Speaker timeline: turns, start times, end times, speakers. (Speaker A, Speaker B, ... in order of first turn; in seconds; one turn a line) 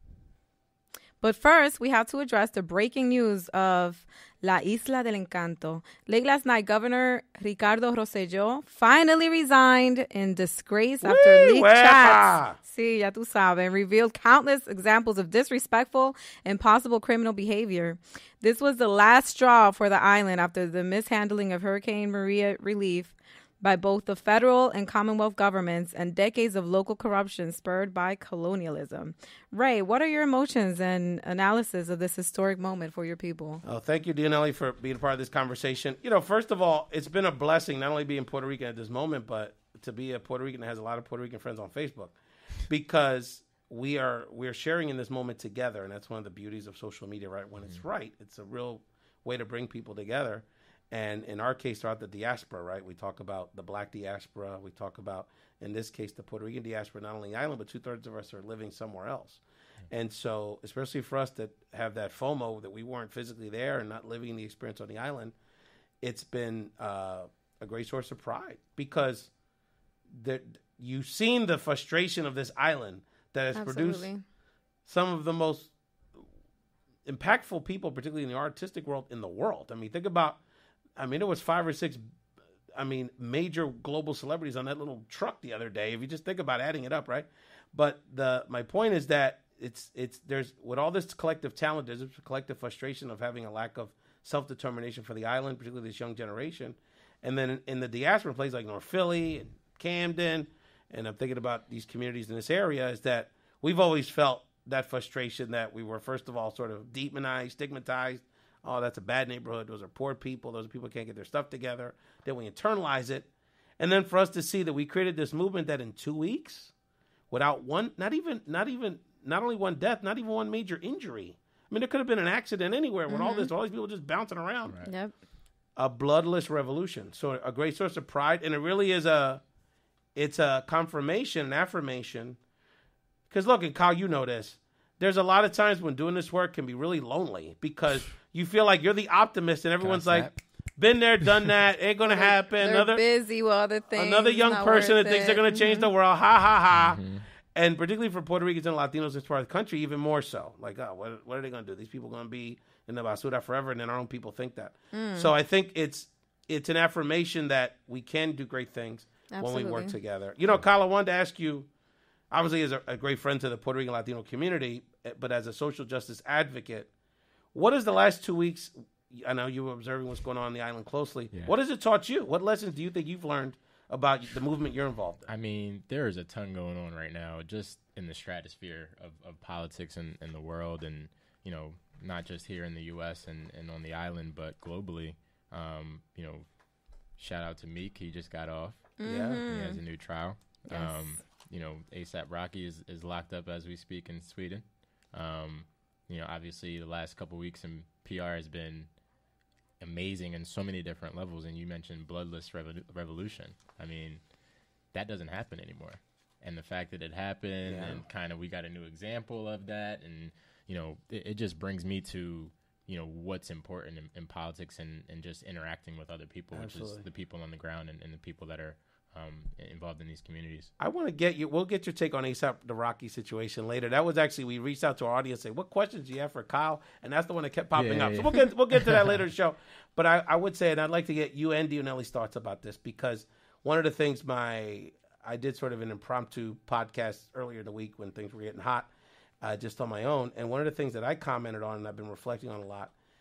Speaker A: 1.2-33.6
Speaker B: 11.0-12.6
Speaker B: 33.6-42.1
Speaker B: 42.6-65.3
Speaker B: 66.0-69.3
Speaker B: 70.1-74.1
Speaker A: 73.5-74.2
Speaker B: 74.8-75.7
Speaker B: 77.0-80.4
Speaker B: 81.0-82.0
Speaker B: 82.7-116.7
Speaker B: 117.3-124.8
Speaker A: 123.1-123.5
Speaker C: 124.7-124.9
Speaker A: 124.8-125.1
Speaker B: 125.8-129.4
Speaker B: 130.1-132.4
Speaker B: 133.3-143.0
Speaker C: 139.8-140.4
Speaker A: 142.0-145.9
Speaker B: 143.9-147.0
Speaker C: 146.7-147.2
Speaker B: 147.5-161.7
Speaker A: 154.9-155.3
Speaker A: 159.3-159.9
Speaker B: 162.3-166.9
Speaker B: 167.5-175.3
Speaker C: 175.3-186.4
Speaker C: 187.2-198.9
Speaker A: 189.0-189.8
Speaker B: 189.0-189.4
Speaker A: 190.7-191.2
Speaker C: 199.8-204.2
Speaker C: 204.9-220.7
Speaker B: 207.6-208.0
Speaker B: 216.5-217.1
Speaker B: 220.8-238.9
Speaker C: 227.7-229.2
Speaker B: 239.4-242.9